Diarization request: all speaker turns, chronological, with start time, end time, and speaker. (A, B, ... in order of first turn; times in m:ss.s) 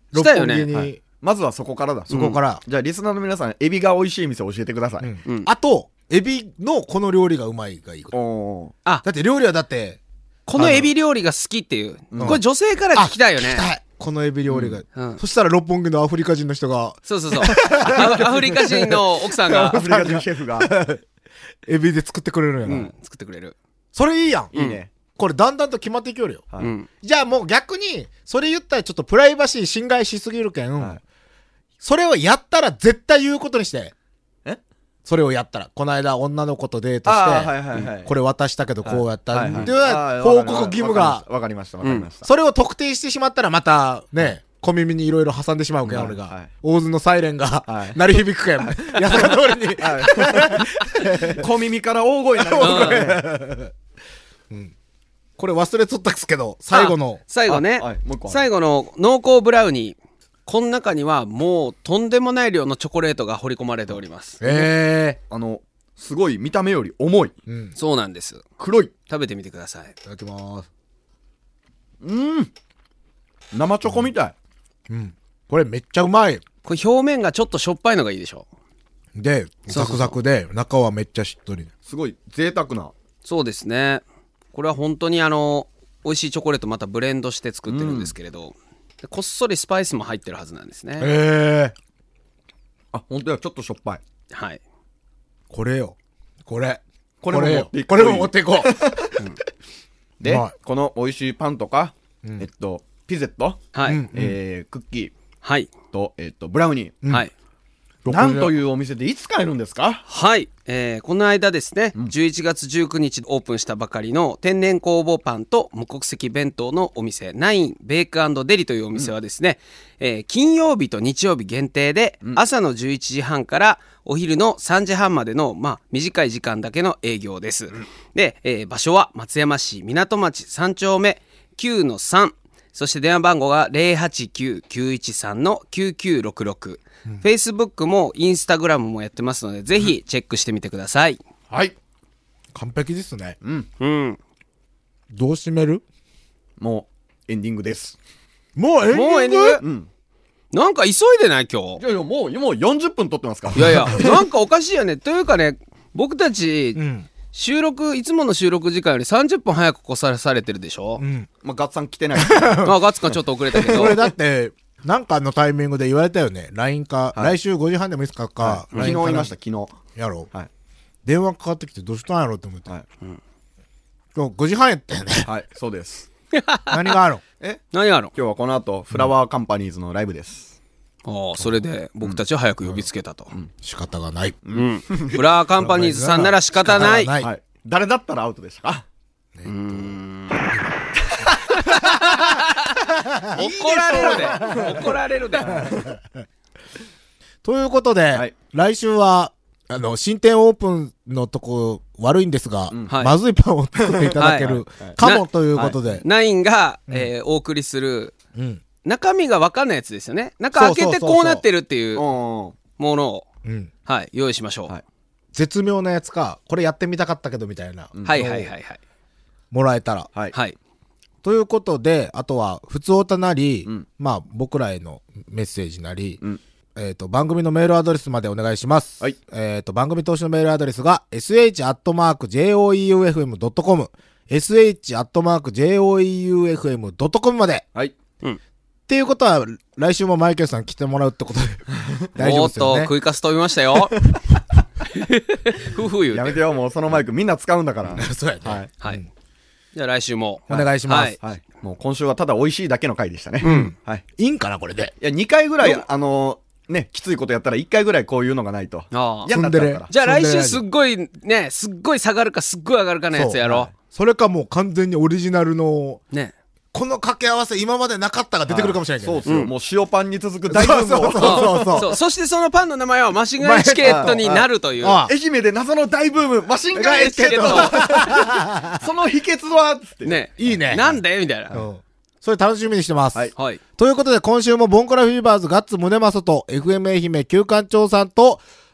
0:00.1-0:01.0 A
0:00.2-0:00.7 B
0:00.7-0:05.1 C
0:02.1-0:02.6 A
0:02.1-0:02.4 B
0:05.0-0:08.2 A
0:08.1-0:08.7 C
0:09.0-0:10.0 A
0:10.5-0:13.7 B
0:10.6-0:10.9 A
0:12.1-0:12.4 C
0:13.0-0:18.3 A
0:14.5-0:14.8 C
0:14.9-0:15.2 B
0:17.1-0:19.8 B
0:17.5-0:20.8 C
0:19.6-0:21.0 A
0:21.7-0:22.9 A
0:22.7-0:23.6 B
0:23.9-0:24.6 A
0:24.5-0:24.9 C
0:25.2-0:26.4 A
0:26.6-0:26.9 B
0:27.0-0:31.0 A
0:31.8-0:33.9 A
0:35.1-0:41.2 A
0:37.1-0:38.1 C
0:38.8-0:42.3 C
0:41.8-0:42.1 B
0:42.2-0:51.5 A
0:45.9-0:46.5 C
0:47.7-0:48.0 C
0:48.8-0:53.3 C
0:52.4-0:53.7 A
0:52.6-0:53.0 B
0:55.4-0:57.2 A
0:56.7-1:04.7 B
0:57.5-0:58.5 C
1:04.4-1:05.2 A
1:05.3-1:07.4 C
1:07.5-1:07.7 A
1:07.8-1:08.4 B
1:08.6-1:08.9 C
1:09.1-1:09.9 B
1:10.0-1:10.7 A
1:12.0-1:12.5 C
1:13.5-1:14.3 C
1:14.9-1:16.4 A
1:16.6-1:18.4 B
1:19.2-1:21.7 A
1:19.7-1:20.2 B
1:21.9-1:22.9 C
1:23.2-1:31.1 B
1:27.7-1:28.1 C
1:31.0-1:31.8 A
1:32.9-1:34.0 C
1:34.3-1:34.6 B
1:35.5-1:38.8 A
1:37.2-1:39.2 C
1:40.2-1:45.1 C
1:40.2-1:40.5 A
1:43.7-1:44.0 B
1:43.9-1:44.4 A
1:45.4-1:45.7 B
1:45.9-1:47.0 C
1:48.0-1:48.5 A
1:48.1-1:50.0 C
1:50.1-2:21.2 B
2:22.5-2:23.4 A
2:23.4-2:23.7 C
2:23.8-2:24.2 B
2:25.1-2:25.8 A
2:26.6-2:28.0 C
2:28.6-2:29.6 A
2:28.9-2:29.6 B
2:29.6-2:29.9 C
2:30.5-2:31.8 B
2:31.8-2:34.1 C
2:33.6-2:36.8 B
2:33.6-2:34.1 A
2:36.8-2:37.1 A
2:37.3-2:41.0 B
2:41.0-2:41.3 A
2:41.4-2:42.8 C
2:42.2-2:42.8 A
2:42.6-2:44.0 B
2:43.6-2:44.0 C
2:43.6-2:49.3 A
2:48.4-2:49.8 C
2:50.0-2:50.3 A
2:51.0-2:52.7 A
2:54.2-2:55.3 A
2:55.2-2:56.1 C
2:56.3-2:57.0 B
2:56.7-2:57.2 A
2:57.7-2:58.1 B
2:58.1-3:00.6 C
3:01.1-3:03.3 B
3:03.6-3:04.4 A
3:04.4-3:05.2 C
3:04.5-3:07.1 B
3:05.6-3:07.3 A
3:06.8-3:08.8 C
3:09.4-3:09.8 A
3:09.4-3:10.5 B
3:11.2-3:11.6 C
3:11.4-3:16.2 A
3:11.5-3:15.8 B
3:13.9-3:14.9 C
3:15.6-3:15.9 C
3:17.4-3:26.0 A
3:22.7-3:23.0 C
3:22.9-3:23.2 B
3:23.8-3:25.0 C
3:24.2-3:24.5 B
3:25.0-3:25.3 B
3:25.9-3:28.1 B
3:28.4-3:28.6 A
3:28.8-3:32.0 B
3:30.5-3:31.4 A
3:32.0-3:32.6 C
3:32.8-3:33.3 B
3:33.4-3:33.7 A
3:33.9-3:34.7 B
3:35.3-3:38.5 A
3:38.0-3:38.2 C
3:38.1-3:38.8 B
3:39.5-3:40.1 A
3:41.2-3:46.2 A
3:46.8-3:57.6 A
3:58.9-4:01.6 A
4:01.7-4:02.1 C
4:02.2-4:02.9 A
4:02.2-4:04.0 B
4:04.9-4:06.4 B
4:06.1-4:08.7 C
4:07.9-4:09.1 A
4:09.7-4:11.2 B
4:10.5-4:11.2 A
4:11.2-4:14.0 C
4:13.4-4:13.7 B
4:13.4-4:14.9 A
4:15.0-4:19.9 C
4:18.9-4:19.3 B
4:19.3-4:20.6 A
4:19.9-4:23.7 B
4:23.1-4:26.0 A
4:23.4-4:23.7 C
4:26.7-4:29.3 A
4:28.5-4:31.9 C
4:29.2-4:29.5 B
4:30.5-4:31.9 A
4:31.2-4:35.0 B
4:33.4-4:34.2 A
4:33.8-4:34.5 C
4:34.8-4:35.1 A
4:35.1-4:40.2 C
4:36.8-4:38.8 A
4:36.8-4:38.0 B
4:40.0-4:41.6 B
4:40.4-4:40.8 A
4:41.5-4:48.4 A
4:43.4-4:43.6 B